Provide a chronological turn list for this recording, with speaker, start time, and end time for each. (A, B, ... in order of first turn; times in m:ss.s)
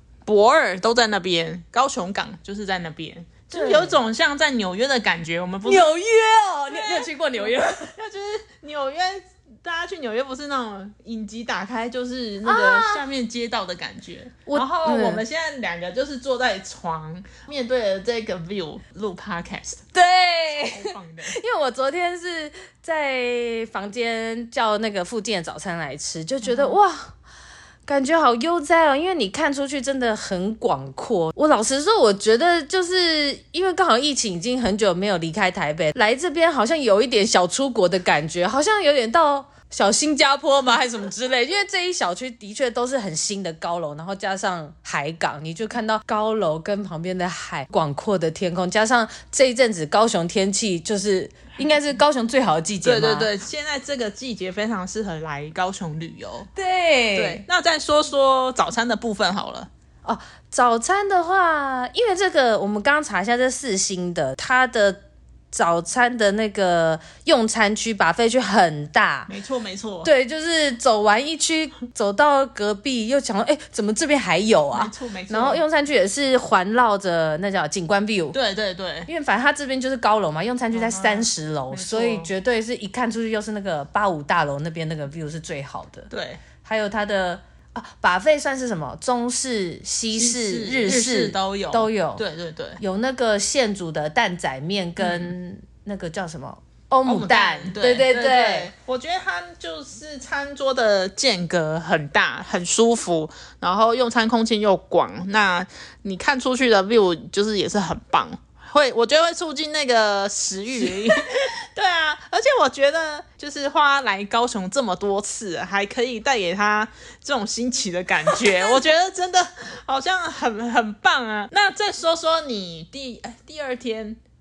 0:00.2-0:05.9 A
0:03.5-0:04.0 B
0:05.6-0:07.9 B
0:06.7-0:19.8 A
0:12.4-0:13.0 B
0:14.4-0:15.2 B
0:19.9-0:27.1 B
0:20.6-0:21.3 A
0:26.4-0:26.8 A
0:27.8-0:53.3 B
0:52.8-0:56.5 A
0:56.5-0:57.4 B
0:57.1-0:59.7 A
1:00.0-1:09.3 B
1:09.3-1:10.1 A
1:10.0-1:18.4 B
1:14.7-1:15.6 A
1:18.3-1:19.1 A
1:19.0-1:26.1 B
1:20.7-1:22.3 A
1:26.1-1:26.4 A
1:26.6-1:32.2 B
1:30.1-1:32.8 A
1:32.8-1:38.7 B
1:35.0-1:35.3 A
1:37.0-2:04.2 A